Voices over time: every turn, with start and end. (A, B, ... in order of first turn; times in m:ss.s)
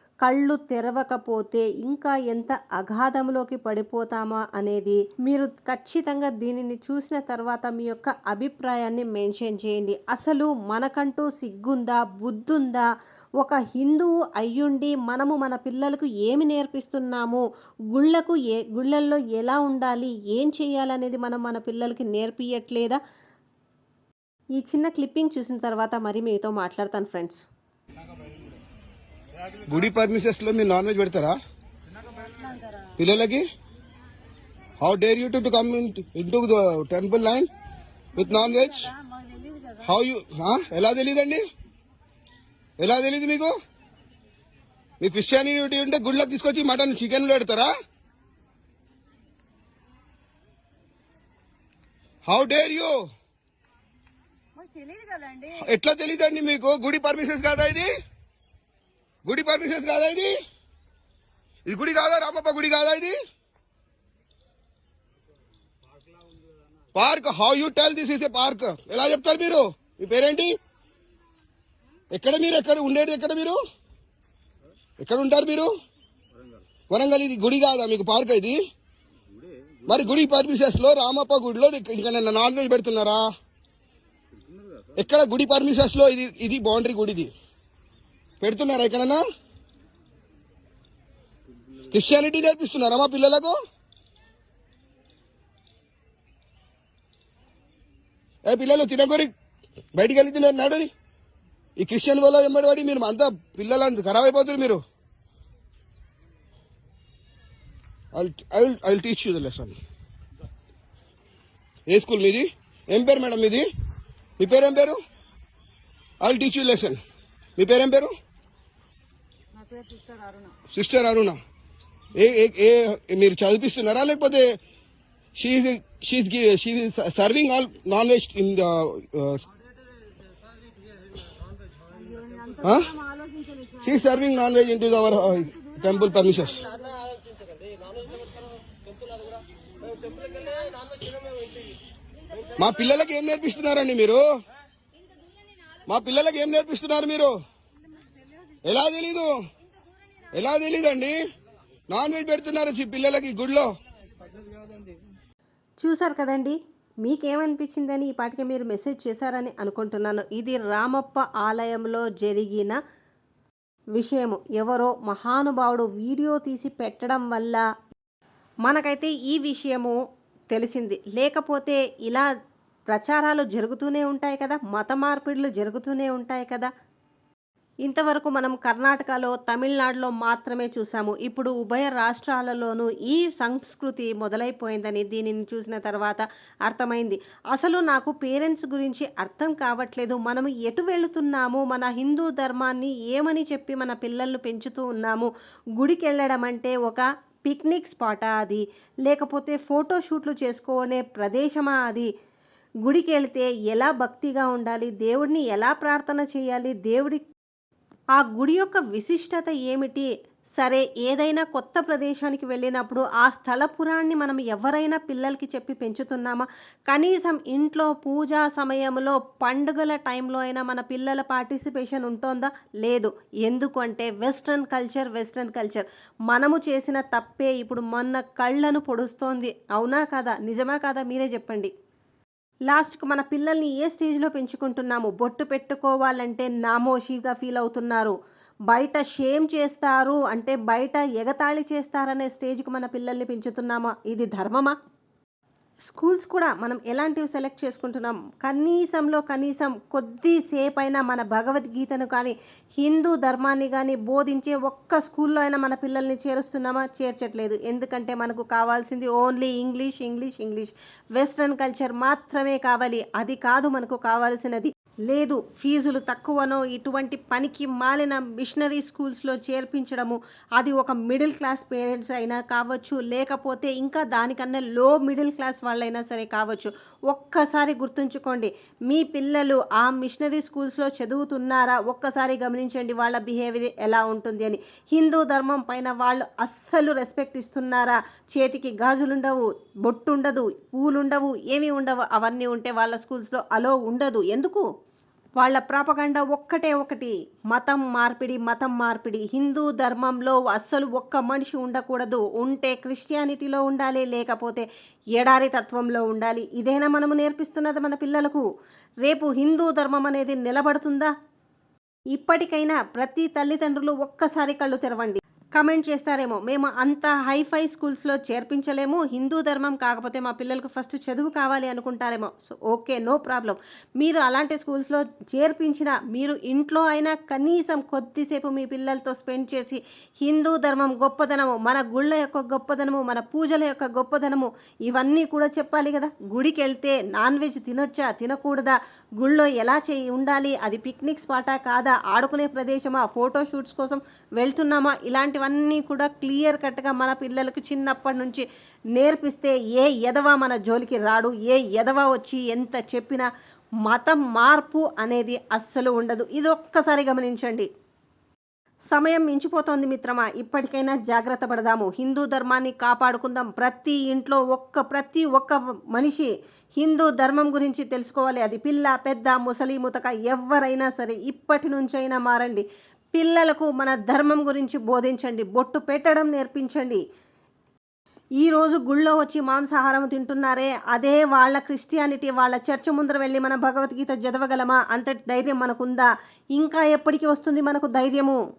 0:00.2-0:12.9 A
0:13.4-0:23.0 A
0:24.6-0:27.4 A
0:29.7-0:31.4 B
0:32.2-0:32.9 C
0:33.0-0:33.4 B
0:34.8-0:37.5 B
0:38.2-0:38.9 B
0:38.2-0:39.9 C
0:39.8-0:41.4 B
0:42.8-0:43.6 B
0:45.0-0:47.7 B
0:52.3-0:53.0 B
0:54.6-0:55.6 C
0:55.6-0:57.9 B
0:59.2-1:00.4 B
1:01.6-1:03.2 B
1:06.9-1:10.6 B
1:12.1-1:13.6 B
1:15.0-1:15.7 B
1:16.9-1:18.6 B
1:19.9-1:23.2 B
1:24.9-1:27.3 B
1:28.4-1:29.2 B
1:31.9-1:33.6 B
1:38.5-1:39.3 B
1:39.9-1:40.9 B
1:41.8-1:44.8 B
1:48.1-1:49.8 B
1:51.9-1:53.6 B
1:54.4-1:55.0 B
1:56.2-1:57.0 B
1:57.6-1:58.1 B
1:59.6-2:00.5 C
2:00.7-2:01.4 B
2:02.1-2:04.6 B
2:05.4-2:09.4 B
2:12.0-2:14.0 C
2:12.6-2:12.9 B
2:13.8-2:16.7 B
2:15.1-2:17.4 C
2:20.0-2:20.8 C
2:22.6-2:24.2 B
2:25.9-2:27.4 B
2:28.6-2:29.3 B
2:30.3-2:31.2 B
2:31.9-2:33.7 B
2:35.8-2:42.8 A
2:44.0-2:47.6 A
2:48.6-2:50.0 A
2:50.5-2:52.3 A
2:52.9-2:56.7 A
2:57.8-3:22.1 A
3:22.8-3:27.2 A
3:28.2-3:51.7 A
3:52.7-3:58.2 A
3:58.7-4:04.8 A
4:05.8-4:54.6 A
4:55.4-5:08.4 A
5:09.0-5:11.1 A
5:12.2-5:48.4 A
5:49.0-5:53.3 A
5:53.9-5:57.7 A
5:58.9-6:17.0 A
6:18.4-6:28.4 A